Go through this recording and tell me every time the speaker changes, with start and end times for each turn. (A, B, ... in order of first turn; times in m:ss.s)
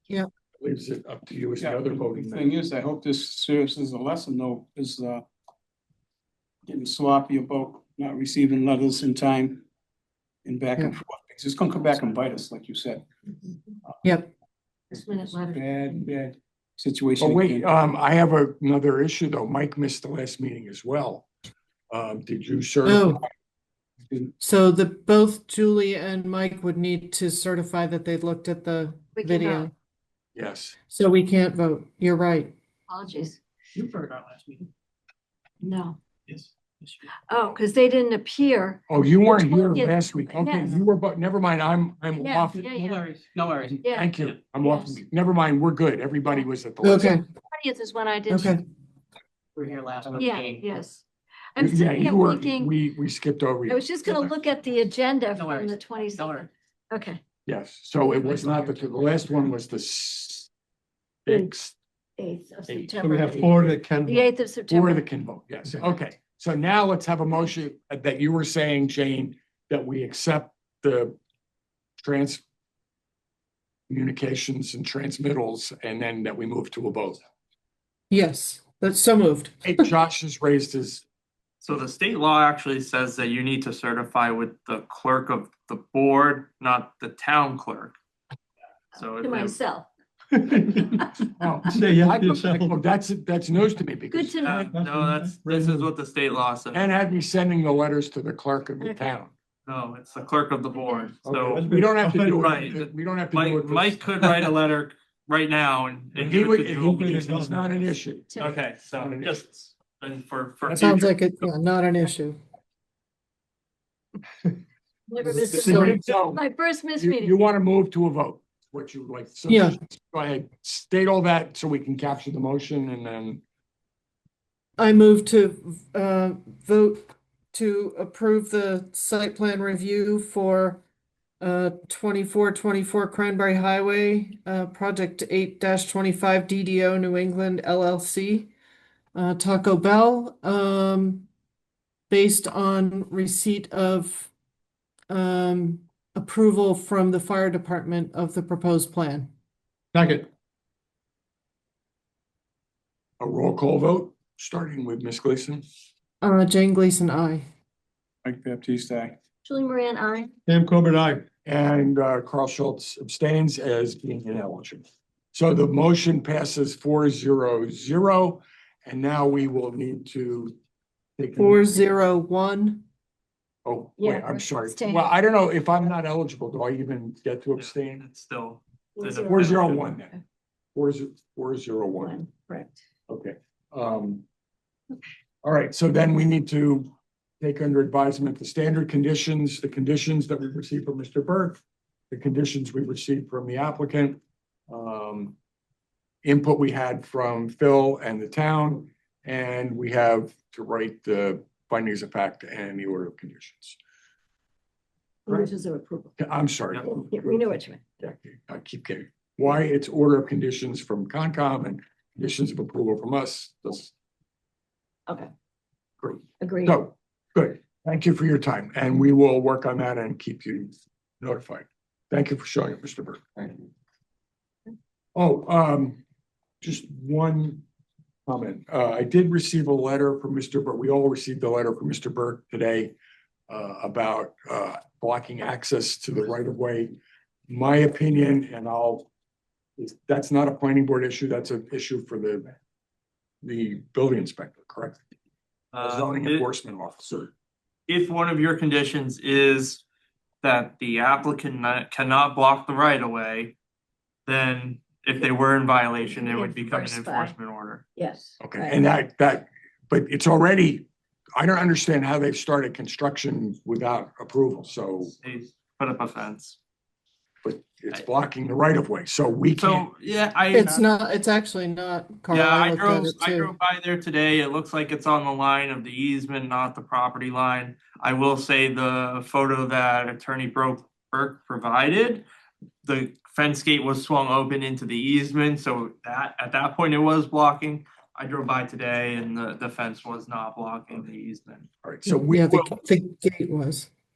0:00.6-0:02.5 A
0:01.6-0:05.2 B
0:06.6-0:09.6 B
0:10.4-0:13.0 B
0:14.0-0:14.3 C
0:14.9-0:15.6 D
0:15.5-0:17.7 B
0:17.2-0:21.3 A
0:21.9-0:23.2 A
0:22.8-0:23.2 C
0:24.1-0:24.3 B
0:24.4-0:29.7 C
0:29.2-0:29.7 D
0:30.3-0:30.8 A
0:30.9-0:32.5 C
0:32.9-0:33.4 D
0:33.7-0:34.7 E
0:35.6-0:36.0 D
0:36.3-0:37.0 E
0:37.3-0:40.8 D
0:38.9-0:42.7 A
0:42.2-0:43.0 D
0:42.5-0:43.8 E
0:43.6-0:47.1 A
0:43.8-0:45.0 D
0:46.8-0:47.2 C
0:47.0-0:48.6 D
0:48.3-0:48.6 C
0:49.6-0:50.7 E
0:50.2-0:51.0 D
0:51.5-0:52.7 D
0:51.6-0:54.3 A
0:53.7-0:57.2 D
0:55.3-0:56.5 E
0:57.4-1:00.5 A
1:01.2-1:01.7 A
1:02.2-1:05.0 D
1:02.7-1:03.5 A
1:03.0-1:04.3 F
1:04.7-1:11.2 A
1:12.0-1:12.4 A
1:13.9-1:17.2 A
1:18.1-1:19.8 C
1:19.6-1:21.0 A
1:21.6-1:28.0 G
1:29.0-1:29.6 G
1:29.0-1:29.9 D
1:31.4-1:34.8 A
1:31.7-1:32.7 F
1:34.1-1:34.7 D
1:34.4-1:36.8 G
1:34.7-1:35.9 F
1:36.7-1:39.3 A
1:39.6-1:41.7 G
1:40.8-1:41.1 D
1:41.2-1:44.0 A
1:41.5-1:42.5 F
1:42.4-1:47.5 G
1:46.2-1:49.4 A
1:47.0-1:47.7 F
1:48.4-1:51.1 G
1:50.6-1:51.1 A
1:50.8-1:52.4 C
1:55.1-1:57.3 D
1:55.2-1:56.4 A
1:55.2-1:55.8 F
1:55.6-1:55.9 C
1:56.9-2:03.4 A
1:59.5-1:59.8 C
2:04.8-2:10.8 C
2:11.4-2:18.5 C
2:19.1-2:21.3 C
2:22.1-2:24.3 C
2:25.1-2:29.3 C
2:33.2-2:35.6 A
2:36.2-2:37.4 C
2:38.2-2:39.2 B
2:39.4-2:40.3 D
2:40.5-2:41.2 F
2:41.4-2:50.5 A
2:51.2-2:51.9 A
2:51.4-2:52.8 C
2:53.6-2:58.0 A
2:54.0-2:55.1 D
2:57.6-2:59.9 G
2:59.0-2:59.4 D
2:59.1-3:00.1 A
3:00.7-3:02.2 A
3:02.0-3:02.8 D
3:03.1-3:04.2 A
3:05.4-3:06.9 A
3:07.4-3:15.4 A
3:16.2-3:23.8 A
3:25.3-3:26.2 D
3:26.2-3:33.9 A
3:26.8-3:27.9 D
3:36.0-3:43.7 A
3:36.4-3:36.8 D
3:45.1-3:46.0 A
3:46.6-3:47.6 A
3:48.3-3:52.9 A
3:53.5-3:57.0 A
3:57.5-3:59.1 A
3:59.8-4:02.5 A
4:03.4-4:05.0 A
4:05.7-4:06.5 G
4:05.8-4:07.3 A
4:07.9-4:09.8 G
4:10.4-4:13.5 G
4:14.2-4:17.8 G
4:16.1-4:17.3 D
4:18.0-4:18.8 D
4:18.4-4:25.1 A
4:25.0-4:26.6 G
4:27.4-4:29.9 A
4:29.5-4:30.8 G
4:30.5-4:33.5 C
4:32.3-4:42.2 G
4:42.8-4:51.7 G
4:51.8-4:52.8 A
4:52.0-4:53.9 C